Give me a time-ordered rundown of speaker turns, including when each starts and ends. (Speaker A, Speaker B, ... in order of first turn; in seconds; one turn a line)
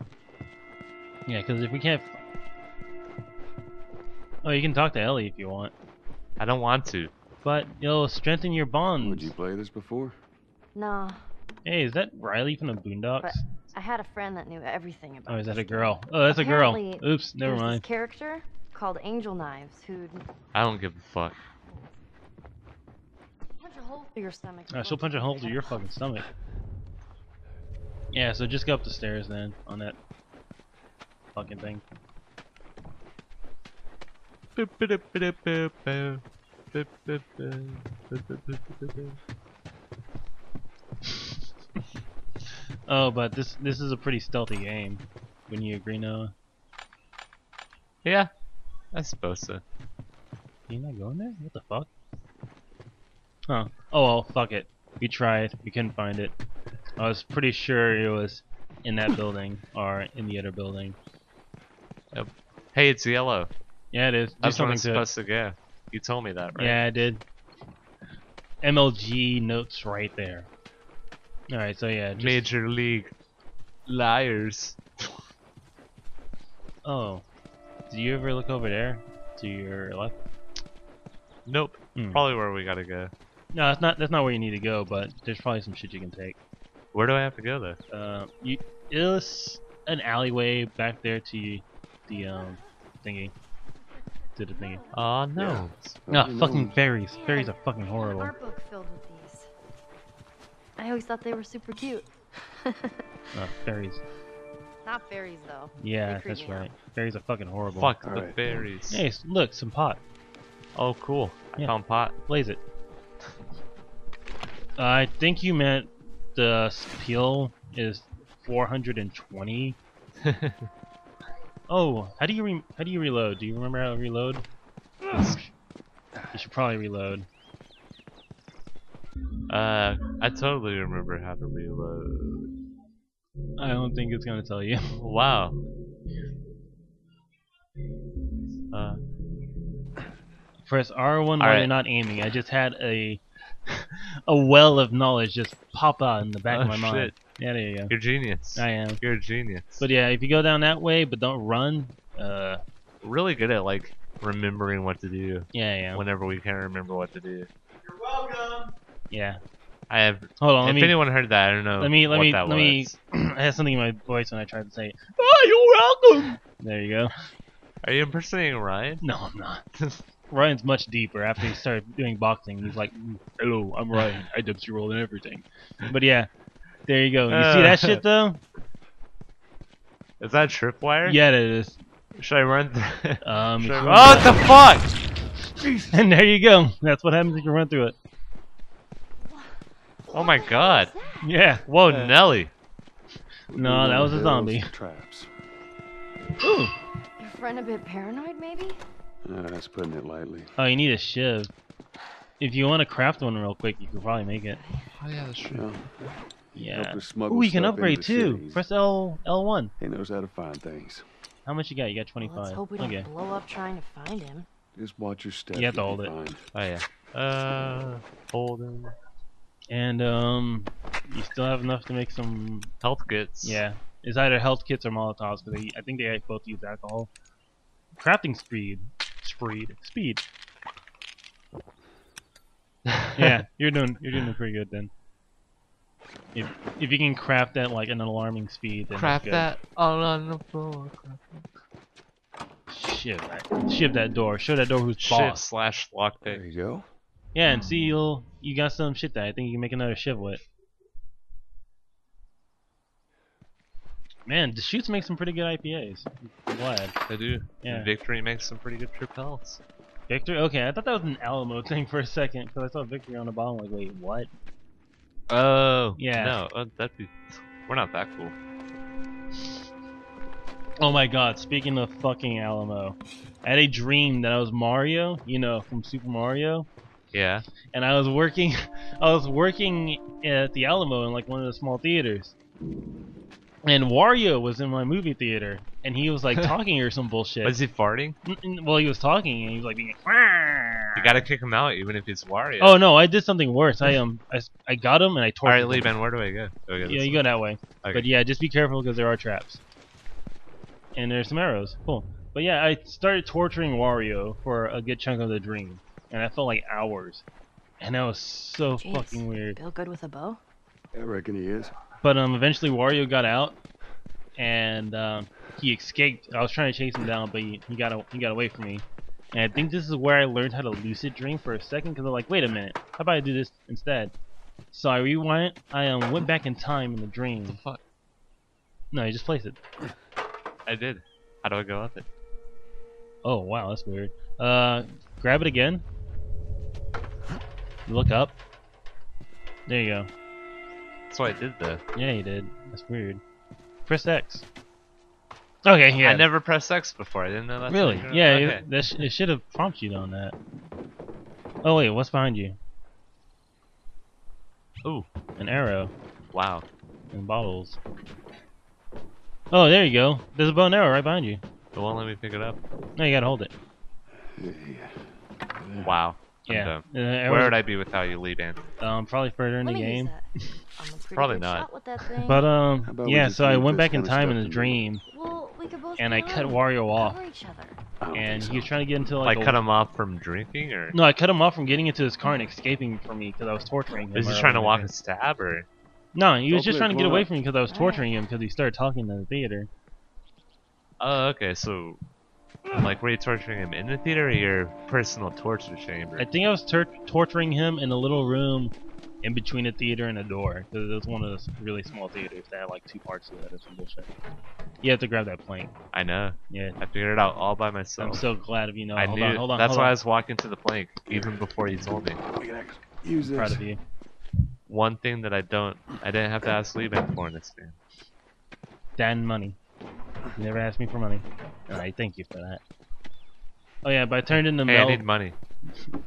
Speaker A: 1.3-2.2
Speaker A: 4.4-5.7
Speaker B: 6.4-7.1
Speaker A: 7.4-9.3
Speaker C: 9.0-10.2
Speaker D: 10.8-11.2
Speaker A: 11.7-13.4
Speaker D: 13.2-20.3
Speaker A: 15.3-17.8
Speaker B: 20.5-21.4
Speaker D: 23.6-25.8
Speaker A: 24.7-26.3
Speaker A: 28.1-30.0
Speaker A: 31.4-31.8
Speaker B: 34.6-36.2
Speaker B: 36.7-39.2
Speaker A: 42.9-46.3
Speaker B: 48.0-48.3
Speaker B: 48.9-49.6
Speaker A: 50.7-51.9
Speaker A: 53.5-56.4
Speaker A: 57.0-61.0
Speaker B: 62.1-63.5
Speaker A: 63.9-65.1
Speaker B: 64.4-66.8
Speaker A: 66.6-67.2
Speaker A: 68.6-70.5
Speaker A: 71.5-72.5
Speaker B: 72.2-73.1
Speaker B: 73.9-75.2
Speaker A: 76.8-77.2
Speaker A: 77.9-80.2
Speaker B: 81.5-83.1
Speaker A: 82.0-82.2
Speaker A: 83.5-86.4
Speaker B: 86.9-87.8
Speaker A: 87.9-93.3
Speaker A: 94.4-94.8
Speaker B: 94.9-96.0
Speaker C: 95.4-96.8
Speaker A: 96.1-98.3
Speaker D: 97.2-99.5
Speaker D: 100.8-103.0
Speaker A: 103.3-104.0
Speaker D: 104.8-106.7
Speaker A: 105.8-107.9
Speaker B: 107.7-109.0
Speaker C: 108.0-108.7
Speaker A: 108.9-110.0
Speaker B: 110.8-112.1
Speaker A: 112.3-112.6
Speaker A: 114.8-119.8
Speaker B: 120.2-120.7
Speaker A: 121.7-124.5
Speaker B: 125.1-125.5
Speaker A: 126.3-127.3
Speaker B: 129.5-132.5
Speaker A: 133.6-134.9
Speaker B: 135.0-135.6
Speaker B: 138.7-139.0
Speaker A: 140.7-147.9
Speaker B: 141.4-141.7
Speaker B: 146.5-147.1
Speaker B: 147.9-149.8
Speaker A: 148.6-149.0
Speaker A: 149.8-152.6
Speaker B: 153.0-157.5
Speaker A: 155.5-156.0
Speaker A: 158.3-159.4
Speaker B: 159.9-162.9
Speaker A: 160.4-161.0
Speaker A: 161.8-167.2
Speaker B: 167.8-169.0
Speaker A: 169.0-169.6
Speaker B: 169.8-170.0
Speaker A: 170.3-176.3
Speaker A: 176.9-178.4
Speaker B: 177.3-178.0
Speaker B: 180.2-181.2
Speaker A: 181.1-181.8
Speaker B: 182.2-184.9
Speaker A: 183.2-184.3
Speaker C: 185.6-185.9
Speaker A: 185.9-188.0
Speaker B: 190.1-190.9
Speaker D: 190.1-191.2
Speaker A: 191.2-192.1
Speaker B: 191.7-192.5
Speaker C: 193.5-195.3
Speaker A: 193.5-194.7
Speaker A: 196.4-196.7
Speaker D: 197.2-198.8
Speaker C: 199.2-200.5
Speaker A: 200.6-201.5
Speaker A: 202.4-204.6
Speaker D: 204.6-204.8
Speaker B: 205.0-205.7
Speaker C: 205.5-205.8
Speaker C: 206.5-208.6
Speaker A: 206.6-209.7
Speaker C: 209.8-211.1
Speaker A: 211.5-213.1
Speaker D: 212.2-214.5
Speaker C: 214.7-216.4
Speaker A: 215.6-216.1
Speaker B: 216.5-218.9
Speaker A: 219.7-222.7
Speaker B: 222.8-223.6
Speaker A: 223.4-227.1
Speaker A: 228.0-230.2
Speaker A: 233.1-234.9
Speaker A: 236.3-239.5
Speaker B: 238.9-241.4
Speaker A: 242.7-245.4
Speaker B: 245.0-246.4
Speaker C: 246.2-246.8
Speaker A: 247.3-250.4
Speaker A: 254.3-256.9
Speaker B: 257.1-259.6
Speaker A: 257.6-257.9
Speaker A: 260.1-264.3
Speaker B: 265.3-268.3
Speaker A: 266.0-266.4
Speaker A: 270.8-276.7
Speaker B: 277.1-277.5
Speaker A: 277.7-282.3
Speaker A: 283.6-287.6
Speaker B: 287.4-288.2
Speaker A: 288.2-291.1
Speaker B: 290.9-292.8
Speaker A: 292.6-295.9
Speaker B: 295.4-297.2
Speaker A: 296.9-299.6
Speaker B: 297.8-298.1
Speaker A: 300.9-307.2
Speaker A: 307.8-309.6
Speaker D: 308.8-310.4
Speaker C: 310.9-311.7
Speaker A: 312.0-313.6
Speaker A: 314.4-324.1
Speaker A: 324.7-327.6
Speaker B: 327.5-327.8
Speaker A: 328.9-329.6
Speaker B: 330.7-332.1
Speaker A: 333.2-335.8
Speaker A: 337.9-338.4
Speaker A: 339.7-340.1
Speaker B: 341.1-341.8
Speaker A: 341.9-343.2
Speaker A: 343.9-344.4
Speaker A: 345.6-346.3
Speaker B: 346.0-348.7
Speaker A: 347.7-350.4
Speaker A: 351.6-352.6
Speaker A: 355.4-355.9
Speaker B: 356.3-356.6
Speaker A: 357.1-357.8
Speaker A: 359.5-361.4
Speaker B: 361.7-362.6
Speaker A: 363.0-363.5
Speaker C: 364.4-365.9
Speaker B: 365.8-368.6
Speaker A: 366.5-367.6
Speaker A: 368.8-370.1
Speaker D: 369.6-372.5
Speaker B: 371.1-371.7
Speaker A: 372.2-375.0
Speaker C: 372.9-374.8
Speaker D: 375.1-377.8
Speaker A: 376.0-377.2
Speaker C: 378.0-379.2
Speaker A: 378.1-379.6
Speaker B: 379.2-381.0
Speaker A: 380.9-384.9
Speaker B: 384.1-385.7
Speaker A: 386.1-389.7
Speaker C: 386.5-387.3
Speaker D: 387.7-388.1
Speaker B: 391.0-392.0
Speaker B: 392.7-396.3
Speaker A: 396.2-404.1
Speaker A: 404.8-405.7
Speaker B: 405.9-408.2
Speaker A: 406.5-406.8
Speaker A: 408.0-409.9
Speaker B: 409.0-412.2
Speaker C: 412.2-413.6
Speaker A: 413.3-413.8
Speaker B: 414.7-417.8
Speaker A: 419.0-419.6
Speaker A: 420.4-422.6
Speaker A: 423.8-425.0
Speaker B: 424.7-425.4